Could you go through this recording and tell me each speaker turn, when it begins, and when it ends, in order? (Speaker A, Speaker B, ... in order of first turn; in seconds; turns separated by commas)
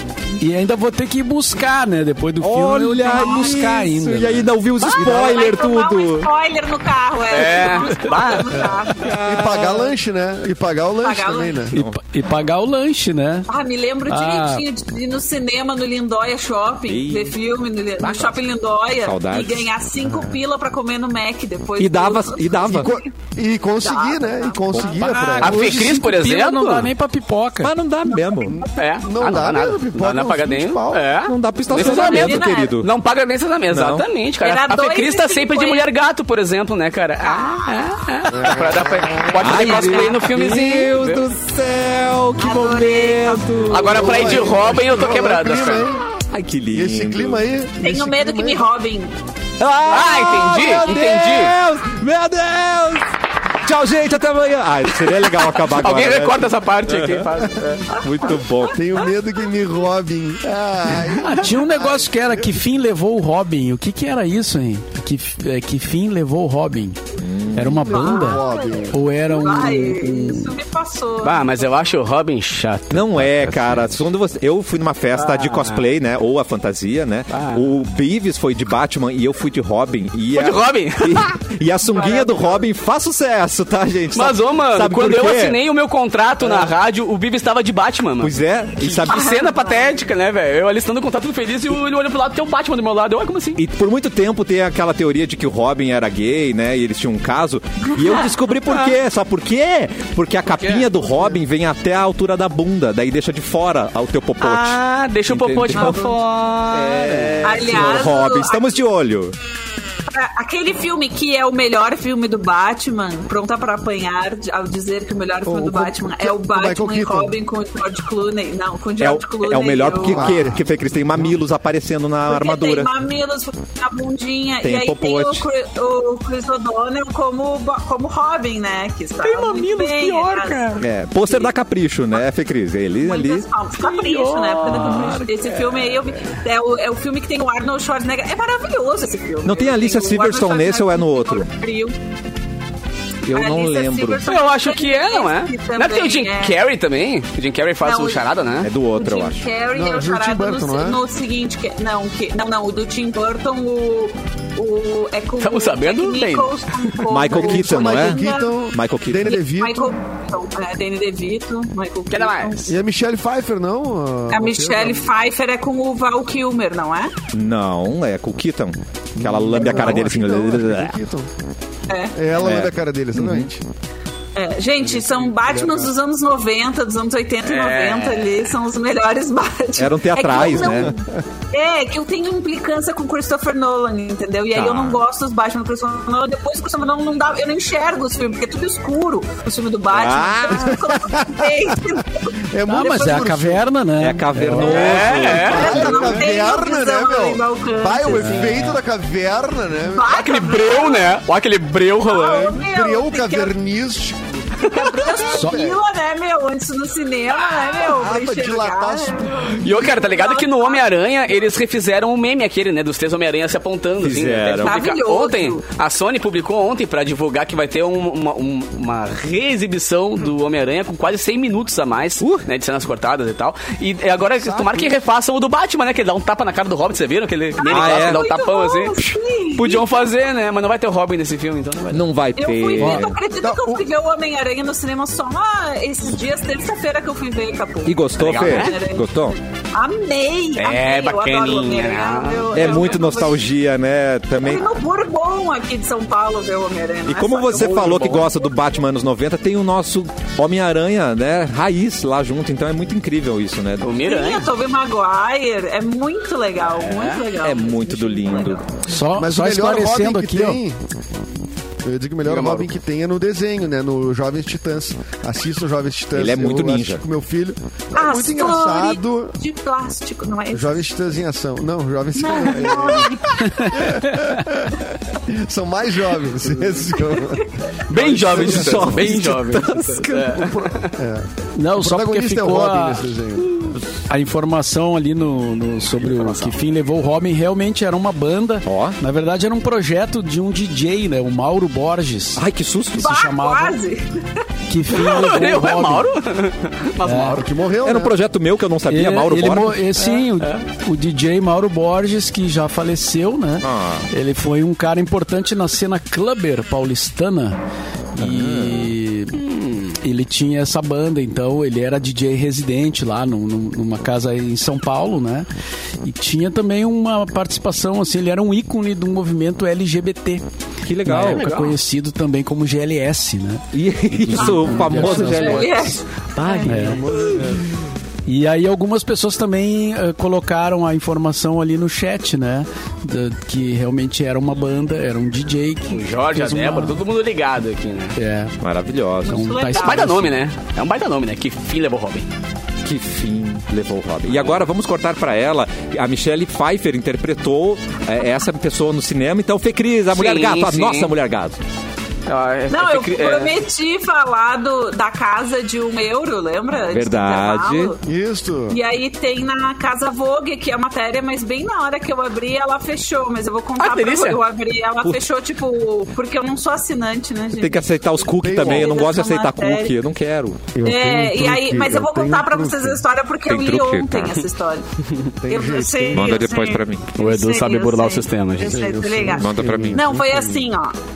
Speaker A: 0.4-4.5, Speaker B: 2.4-6.3, Speaker C: 3.1-3.6, Speaker D: 4.8-5.2, Speaker C: 4.9-9.1, Speaker D: 7.3-8.7, Speaker B: 9.0-9.9, Speaker E: 9.2-11.8, Speaker C: 11.0-11.7, Speaker B: 11.7-12.0, Speaker A: 11.7-13.5, Speaker C: 13.5-23.0, Speaker A: 14.1-14.6, Speaker B: 16.9-17.3, Speaker B: 19.0-19.7, Speaker B: 21.8-22.9, Speaker E: 22.7-26.0, Speaker C: 23.8-25.4, Speaker B: 24.7-25.4, Speaker D: 25.4-26.9, Speaker A: 25.4-27.7, Speaker B: 27.6-28.6, Speaker E: 28.5-31.1, Speaker D: 28.8-41.2, Speaker B: 31.2-32.9, Speaker C: 31.7-32.8, Speaker B: 33.7-34.0, Speaker C: 34.4-35.9, Speaker E: 38.3-39.5, Speaker B: 39.4-44.6, Speaker C: 39.4-40.2, Speaker C: 42.4-44.0, Speaker D: 43.7-45.9, Speaker E: 43.9-46.0, Speaker B: 46.3-47.4, Speaker E: 46.7-48.6, Speaker C: 47.8-49.1, Speaker B: 49.6-53.1, Speaker D: 49.9-51.5, Speaker B: 53.6-57.3, Speaker D: 55.3-57.9, Speaker C: 57.9-58.7, Speaker B: 58.0-58.8, Speaker E: 58.7-62.5, Speaker A: 61.2-67.0, Speaker B: 67.2-67.9, Speaker A: 67.5-70.5, Speaker E: 67.8-69.0, Speaker C: 67.8-71.6, Speaker D: 71.2-73.8, Speaker B: 72.9-85.6, Speaker D: 75.1-75.9, Speaker D: 77.3-77.7, Speaker D: 80.3-81.3, Speaker C: 81.9-82.6, Speaker D: 84.1-93.6, Speaker B: 86.4-86.7, Speaker B: 88.2-89.4, Speaker C: 89.1-89.9, Speaker B: 93.6-109.3, Speaker D: 100.5-100.9, Speaker D: 104.4-107.9, Speaker C: 105.7-106.1, Speaker C: 107.4-108.8, Speaker C: 110.1-120.5, Speaker E: 115.5-117.3, Speaker B: 119.0-122.9, Speaker E: 120.0-120.6, Speaker C: 122.2-131.5, Speaker B: 124.6-125.4, Speaker D: 129.2-130.8, Speaker B: 130.8-133.4, Speaker C: 133.0-141.9, Speaker D: 133.8-136.4, Speaker B: 134.7-135.2, Speaker B: 139.4-141.5, Speaker B: 143.2-144.2, Speaker C: 143.3-146.6, Speaker D: 144.2-148.7, Speaker C: 147.8-148.3, Speaker B: 148.6-149.4, Speaker C: 148.9-158.6, Speaker E: 149.7-151.0, Speaker D: 155.4-156.9, Speaker B: 157.1-158.2, Speaker E: 157.3-159.9, Speaker B: 158.7-159.4, Speaker C: 159.3-162.7, Speaker D: 162.1-162.7, Speaker E: 162.7-165.1, Speaker C: 164.3-167.1, Speaker B: 167.3-170.9, Speaker E: 169.2-171.3, Speaker C: 171.9-172.2, Speaker E: 172.1-173.6, Speaker B: 172.4-173.5, Speaker C: 174.3-193.2, Speaker E: 175.0-175.9, Speaker D: 177.4-178.5, Speaker B: 179.8-180.9, Speaker E: 180.4-180.8, Speaker B: 184.5-185.0, Speaker B: 189.9-190.9, Speaker E: 191.1-191.5, Speaker E: 192.4-193.6, Speaker A: 192.7-194.9, Speaker B: 194.0-196.1, Speaker D: 194.6-196.2, Speaker C: 194.6-198.6, Speaker E: 195.3-200.1, Speaker A: 198.1-198.8, Speaker C: 199.9-201.2, Speaker D: 200.1-202.6, Speaker C: 202.0-203.5, Speaker E: 202.2-205.8, Speaker C: 204.6-210.9, Speaker D: 204.7-204.9, Speaker A: 205.3-205.6, Speaker E: 207.8-209.3, Speaker D: 209.5-232.1, Speaker B: 214.0-214.8, Speaker C: 214.6-215.6, Speaker E: 224.4-224.9, Speaker C: 227.6-230.0, Speaker B: 227.7-228.2, Speaker B: 231.9-233.2, Speaker C: 232.3-243.4, Speaker A: 232.8-233.1, Speaker E: 233.4-233.8, Speaker B: 237.8-239.3, Speaker D: 238.2-238.8, Speaker D: 240.6-243.0, Speaker B: 242.5-244.7, Speaker C: 244.4-248.3, Speaker B: 247.1-254.0, Speaker D: 253.8-254.5, Speaker C: 254.0-258.6, Speaker D: 256.6-257.2, Speaker B: 257.4-258.6, Speaker A: 258.9-260.6, Speaker E: 259.1-260.8, Speaker E: 261.8-269.4, Speaker D: 262.2-262.7, Speaker B: 266.1-267.0, Speaker C: 267.9-270.8, Speaker E: 270.5-273.2, Speaker C: 272.1-273.9, Speaker A: 273.4-274.2, Speaker E: 273.7-279.1, Speaker D: 277.9-280.9, Speaker B: 278.0-280.6, Speaker E: 280.9-283.6, Speaker A: 281.6-283.1, Speaker A: 284.1-292.4, Speaker D: 286.1-286.5, Speaker B: 288.6-289.0, Speaker B: 292.4-293.1, Speaker C: 292.9-294.4, Speaker A: 293.0-293.8, Speaker A: 294.7-296.1, Speaker D: 294.9-297.5, Speaker A: 297.0-297.4, Speaker E: 297.3-298.1, Speaker B: 297.8-299.8, Speaker A: 298.9-307.6, Speaker D: 300.0-300.6, Speaker B: 303.6-304.1, Speaker A: 308.1-309.4, Speaker B: 308.2-308.9, Speaker D: 309.3-309.9, Speaker A: 310.0-315.5, Speaker A: 316.0-320.4, Speaker B: 320.8-321.4, Speaker A: 321.0-323.6, Speaker D: 321.2-321.8, Speaker B: 323.7-326.9, Speaker A: 324.2-325.7, Speaker C: 324.4-326.7, Speaker D: 326.4-326.8, Speaker A: 326.6-327.0, Speaker E: 326.8-327.6, Speaker A: 328.2-337.0, Speaker D: 335.9-338.1, Speaker A: 338.1-338.6, Speaker B: 338.6-339.4, Speaker A: 339.2-340.3, Speaker C: 339.3-340.2, Speaker D: 339.8-342.3, Speaker B: 342.8-351.6, Speaker D: 350.1-351.1, Speaker D: 352.3-353.6, Speaker C: 352.7-358.0, Speaker B: 356.8-357.9, Speaker E: 358.0-358.8, Speaker C: 358.7-367.9, Speaker D: 363.8-364.4, Speaker B: 367.6-370.7, Speaker E: 368.4-369.0, Speaker C: 368.5-369.9, Speaker E: 370.7-373.0, Speaker C: 370.8-374.8, Speaker B: 373.5-374.4, Speaker E: 375.4-376.5, Speaker C: 375.5-380.9, Speaker B: 376.1-377.1, Speaker D: 377.1-379.2, Speaker E: 378.6-380.6, Speaker B: 379.4-380.1